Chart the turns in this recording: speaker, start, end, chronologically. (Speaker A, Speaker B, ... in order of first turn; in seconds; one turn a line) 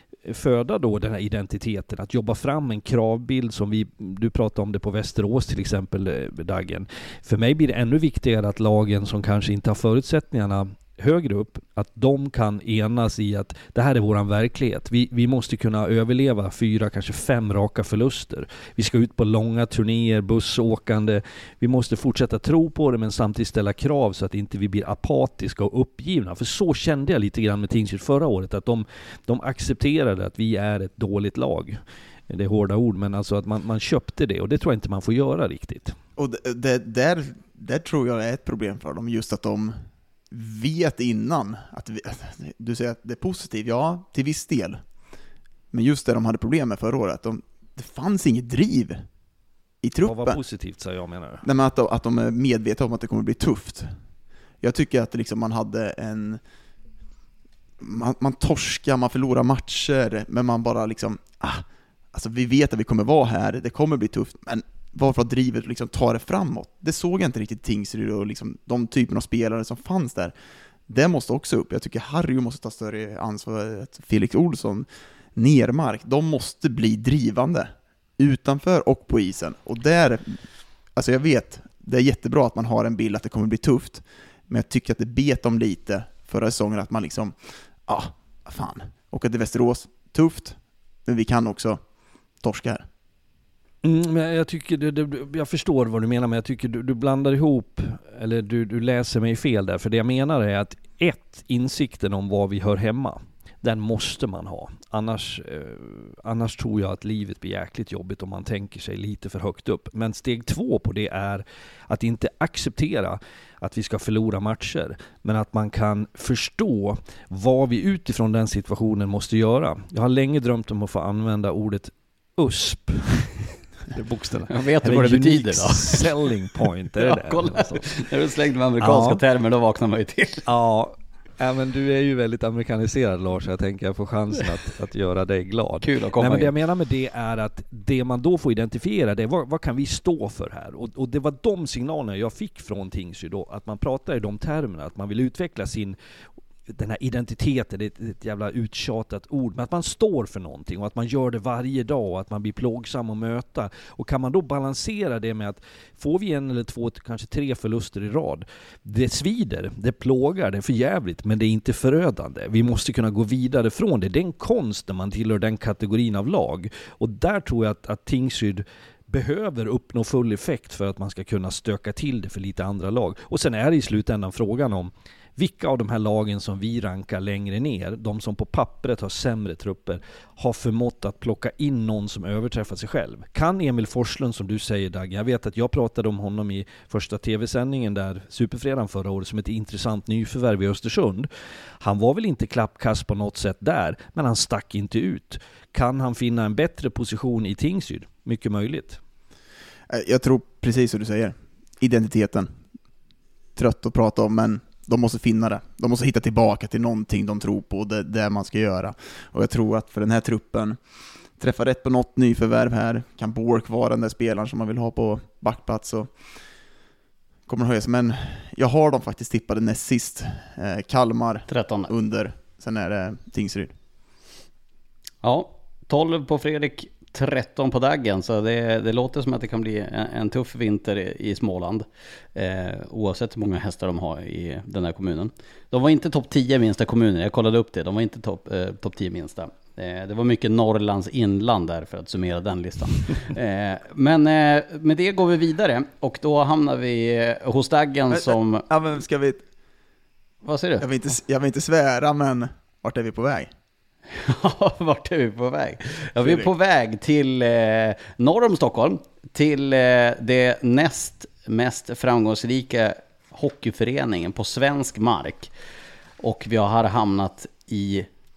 Speaker A: 0.2-36.0
Speaker B: 36.2-39.7
Speaker B: 40.3-44.8
Speaker B: 45.7-49.0
Speaker B: 49.8-50.4
Speaker A: 50.0-51.4
Speaker B: 51.4-53.9
Speaker B: 54.6-56.4
Speaker B: 57.8-70.3
Speaker B: 70.9-80.4
Speaker B: 81.0-87.3
Speaker B: 87.9-91.8
Speaker B: 92.4-92.8
Speaker A: 93.8-127.9
Speaker C: 124.5-126.3
Speaker C: 127.0-130.4
Speaker A: 128.8-129.2
Speaker A: 130.4-146.0
Speaker C: 135.8-136.5
Speaker A: 146.7-191.3
Speaker A: 191.8-199.0
Speaker B: 199.9-202.5
Speaker B: 203.6-210.8
Speaker B: 211.4-216.1
Speaker B: 217.5-223.7
Speaker C: 221.5-221.9
Speaker C: 225.2-248.7
Speaker B: 248.1-249.4
Speaker C: 250.4-250.9
Speaker B: 250.8-253.5
Speaker C: 254.1-265.5
Speaker B: 256.2-256.5
Speaker C: 266.2-268.1